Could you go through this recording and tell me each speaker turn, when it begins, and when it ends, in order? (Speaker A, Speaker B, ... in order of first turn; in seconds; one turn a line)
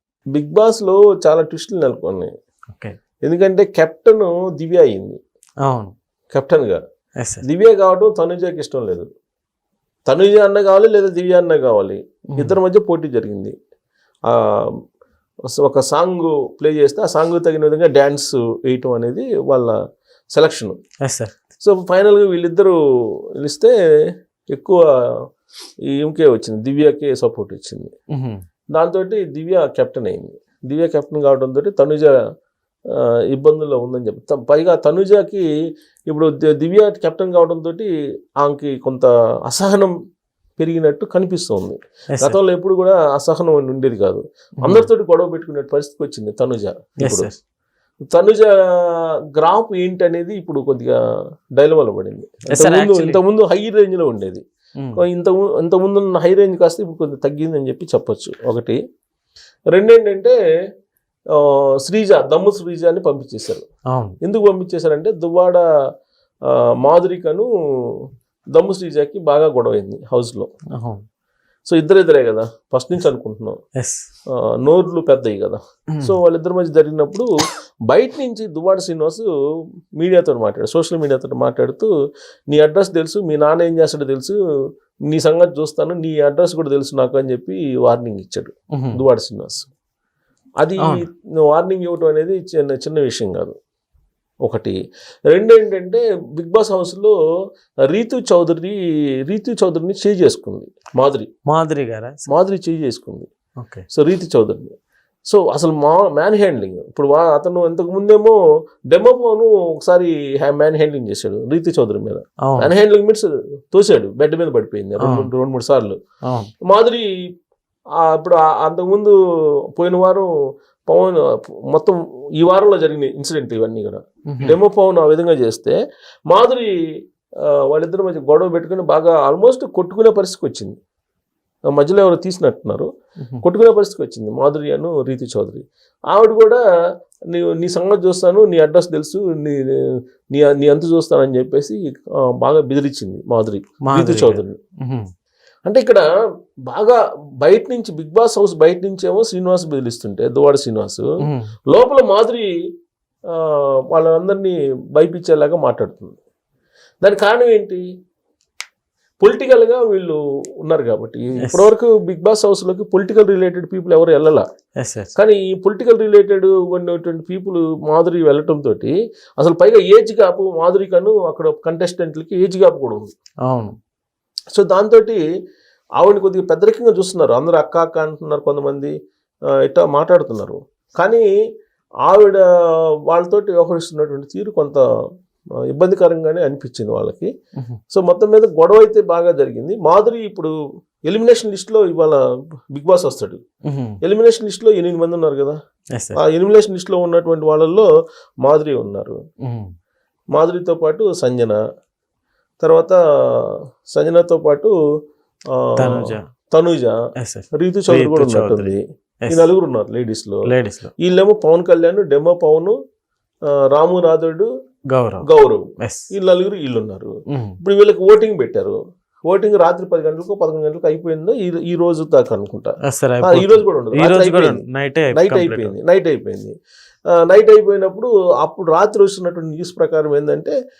Speaker A: 0.3-2.3
Speaker A: 3.2-5.2
Speaker B: 5.6-5.9
Speaker A: 6.3-6.8
Speaker A: 7.5-9.1
Speaker A: 10.1-13.5
Speaker A: 14.3-14.7
Speaker A: 15.6-19.8
Speaker A: 20.3-20.8
Speaker B: 21.0-21.4
Speaker A: 21.6-23.7
Speaker A: 24.5-25.1
Speaker A: 25.9-27.9
Speaker B: 28.1-28.4
Speaker A: 28.7-32.1
Speaker A: 32.9-35.4
Speaker A: 36.1-37.9
Speaker A: 38.4-39.9
Speaker A: 40.6-47.3
Speaker B: 44.6-44.9
Speaker B: 47.0-47.4
Speaker A: 48.1-51.0
Speaker A: 51.6-54.4
Speaker B: 52.5-53.2
Speaker A: 55.0-58.8
Speaker A: 59.7-60.4
Speaker A: 61.3-63.6
Speaker B: 63.9-64.2
Speaker A: 64.2-65.6
Speaker A: 66.5-70.5
Speaker B: 70.7-71.0
Speaker A: 71.7-73.6
Speaker B: 73.8-74.0
Speaker A: 74.4-77.3
Speaker A: 77.9-79.3
Speaker A: 80.0-81.9
Speaker A: 82.5-84.4
Speaker A: 85.1-89.7
Speaker B: 88.7-89.0
Speaker A: 90.6-93.5
Speaker A: 94.4-94.8
Speaker A: 95.3-97.1
Speaker A: 97.9-98.8
Speaker A: 99.3-101.3
Speaker B: 101.5-102.3
Speaker A: 102.3-103.3
Speaker B: 103.6-103.8
Speaker A: 103.9-104.7
Speaker A: 105.3-108.4
Speaker A: 108.9-116.0
Speaker B: 112.5-112.7
Speaker B: 115.0-115.3
Speaker B: 116.2-116.5
Speaker A: 116.7-117.1
Speaker A: 118.0-119.1
Speaker A: 119.7-120.3
Speaker A: 120.9-125.8
Speaker B: 124.3-124.5
Speaker A: 126.3-126.7
Speaker A: 127.4-130.8
Speaker A: 131.7-132.9
Speaker A: 133.4-136.6
Speaker A: 137.3-141.8
Speaker A: 142.3-144.6
Speaker B: 143.9-145.1
Speaker A: 145.7-146.0
Speaker A: 146.7-151.1
Speaker B: 151.2-151.5
Speaker A: 151.7-152.5
Speaker A: 153.3-156.2
Speaker A: 157.0-157.8
Speaker A: 159.2-164.4
Speaker B: 161.4-161.7
Speaker B: 164.8-165.1
Speaker A: 165.2-173.1
Speaker B: 173.4-173.8
Speaker A: 174.5-175.2
Speaker A: 176.0-178.9
Speaker A: 179.6-181.3
Speaker A: 182.1-182.4
Speaker A: 183.1-184.8
Speaker A: 185.7-187.3
Speaker A: 187.9-190.5
Speaker A: 191.1-192.2
Speaker A: 192.7-193.4
Speaker B: 193.7-194.0
Speaker A: 194.0-195.6
Speaker A: 196.2-197.9
Speaker A: 198.4-199.2
Speaker B: 199.4-199.7
Speaker A: 200.3-201.6
Speaker A: 202.6-204.7
Speaker A: 205.5-206.9
Speaker B: 205.8-206.2
Speaker B: 207.2-209.5
Speaker A: 207.5-210.4
Speaker B: 210.4-210.9
Speaker A: 211.0-212.8
Speaker A: 213.7-214.5
Speaker B: 214.9-215.2
Speaker A: 215.2-218.8
Speaker B: 215.8-216.1
Speaker B: 217.3-217.6
Speaker A: 219.3-222.7
Speaker B: 222.9-225.7
Speaker A: 223.2-226.5
Speaker A: 227.1-230.5